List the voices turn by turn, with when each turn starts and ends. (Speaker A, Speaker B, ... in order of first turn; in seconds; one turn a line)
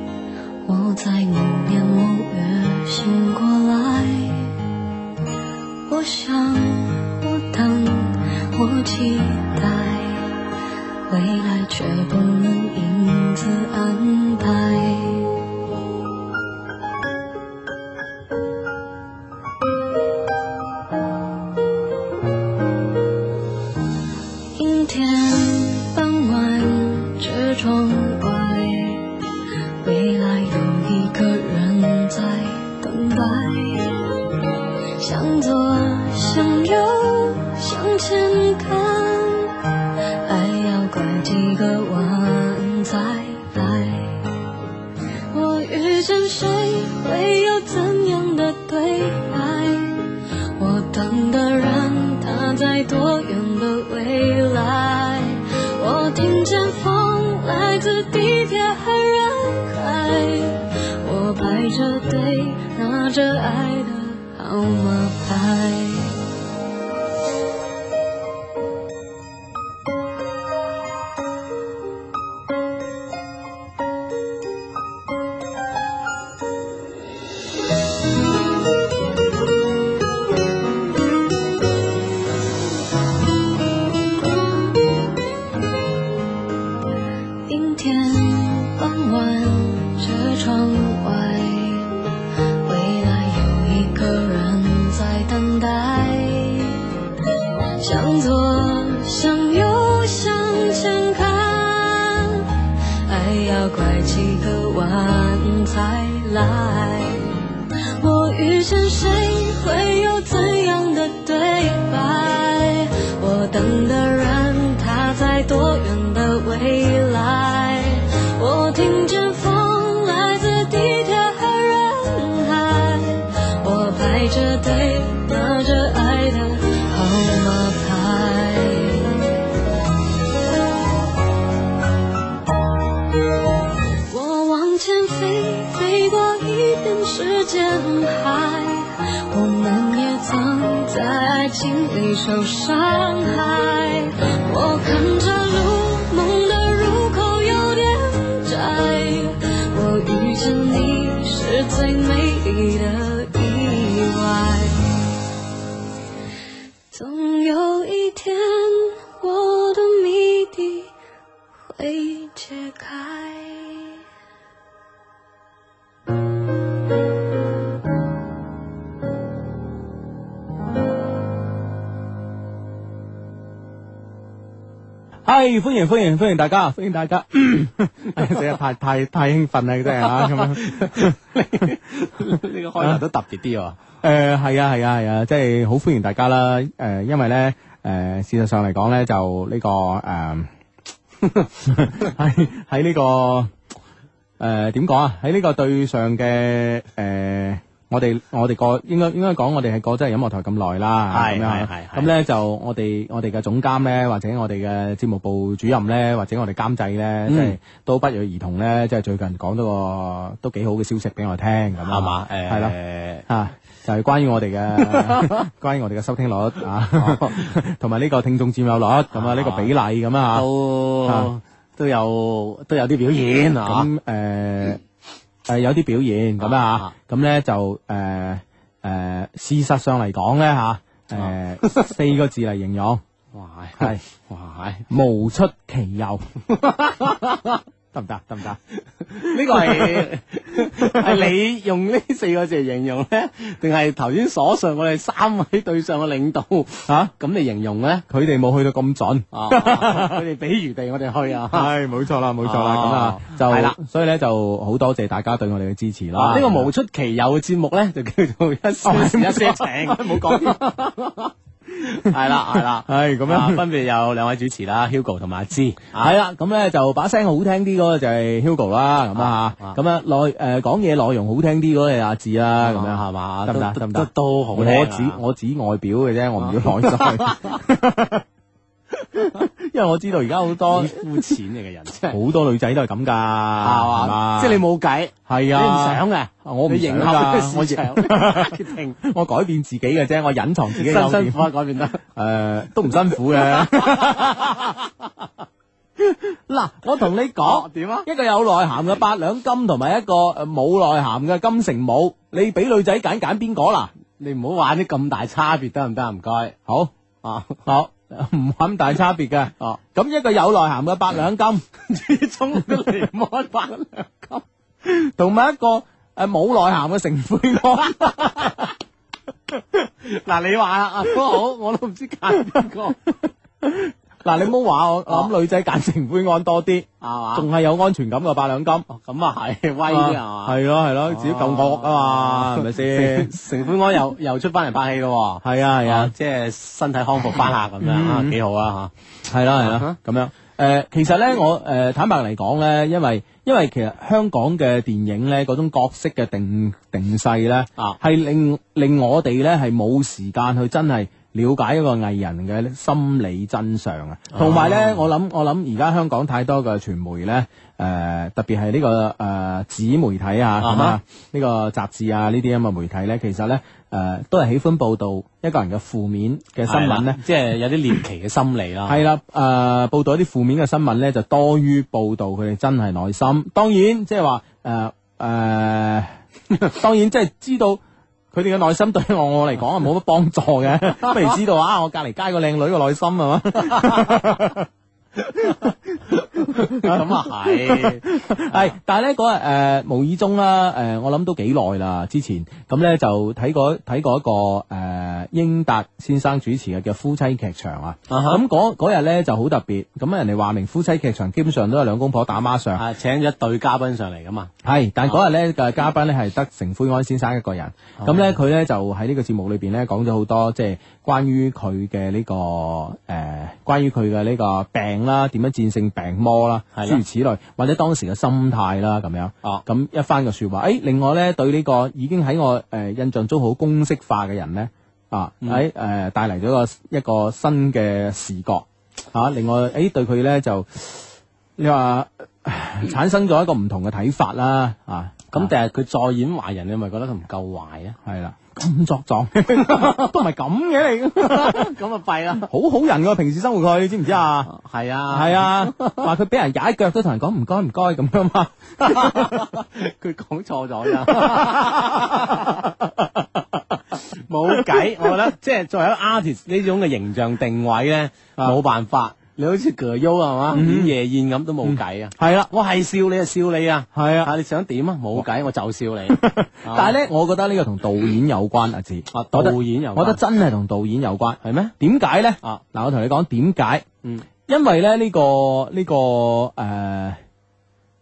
Speaker A: 0.6-4.6
Speaker A: 5.9-10.4
Speaker A: 11.1-15.4
Speaker A: 24.6-29.1
Speaker A: 29.8-34.1
Speaker A: 35.0-39.7
Speaker A: 40.2-44.3
Speaker A: 45.3-66.2
Speaker A: 87.5-92.0
Speaker A: 92.6-96.9
Speaker A: 97.8-129.3
Speaker A: 134.1-154.8
Speaker A: 156.9-160.9
Speaker A: 161.7-164.0
Speaker B: 175.2-181.1
Speaker C: 180.4-183.8
Speaker B: 184.0-190.5
Speaker B: 191.6-193.5
Speaker B: 194.4-212.8
Speaker C: 201.1-202.1
Speaker C: 207.2-207.6
Speaker C: 211.9-213.2
Speaker B: 213.3-220.4
Speaker C: 214.8-215.4
Speaker C: 217.0-217.5
Speaker C: 219.1-219.7
Speaker C: 220.3-223.9
Speaker B: 223.6-224.8
Speaker B: 225.5-233.0
Speaker C: 226.4-226.9
Speaker C: 231.2-231.8
Speaker C: 233.3-234.8
Speaker B: 234.9-236.2
Speaker C: 236.5-237.6
Speaker B: 237.9-238.6
Speaker C: 239.0-248.0
Speaker B: 239.2-240.1
Speaker B: 240.7-241.2
Speaker B: 246.9-247.1
Speaker B: 248.1-250.2
Speaker C: 249.3-251.7
Speaker B: 251.5-256.7
Speaker C: 252.4-253.8
Speaker C: 256.1-266.1
Speaker B: 258.8-260.6
Speaker B: 262.2-263.6
Speaker B: 265.9-278.2
Speaker C: 269.1-269.8
Speaker C: 272.6-275.2
Speaker C: 276.4-277.6
Speaker B: 279.1-281.1
Speaker C: 280.7-282.2
Speaker B: 282.1-284.6
Speaker C: 283.6-289.0
Speaker B: 285.3-291.5
Speaker C: 290.7-292.0
Speaker B: 292.1-294.8
Speaker C: 293.5-294.7
Speaker B: 296.0-303.9
Speaker C: 297.4-298.1
Speaker C: 304.2-306.6
Speaker B: 306.7-306.9
Speaker C: 307.2-307.6
Speaker B: 307.6-311.6
Speaker C: 311.8-314.4
Speaker B: 314.8-318.7
Speaker C: 320.0-323.0
Speaker B: 323.6-328.9
Speaker C: 327.0-327.5
Speaker C: 328.9-338.9
Speaker B: 329.9-333.3
Speaker B: 335.4-336.1
Speaker B: 337.8-338.4
Speaker B: 339.3-367.2
Speaker C: 339.6-339.9
Speaker C: 354.3-355.1
Speaker C: 360.6-361.0
Speaker C: 366.7-369.0
Speaker B: 368.9-377.8
Speaker B: 378.3-402.8
Speaker C: 386.5-388.0
Speaker C: 398.1-398.4
Speaker C: 402.8-404.5
Speaker B: 404.6-435.5
Speaker C: 408.0-408.4
Speaker C: 416.8-417.0
Speaker C: 435.3-438.0
Speaker B: 438.0-441.7
Speaker C: 439.7-440.0
Speaker C: 441.2-442.5
Speaker B: 442.3-444.5
Speaker C: 444.4-446.0
Speaker B: 445.1-449.5
Speaker C: 448.8-452.7
Speaker B: 451.1-452.7
Speaker C: 453.9-466.9
Speaker B: 454.7-455.1
Speaker B: 460.5-460.9
Speaker B: 461.6-462.5
Speaker B: 463.9-464.3
Speaker B: 466.1-473.9
Speaker C: 469.1-470.2
Speaker C: 471.4-471.7
Speaker B: 474.5-477.2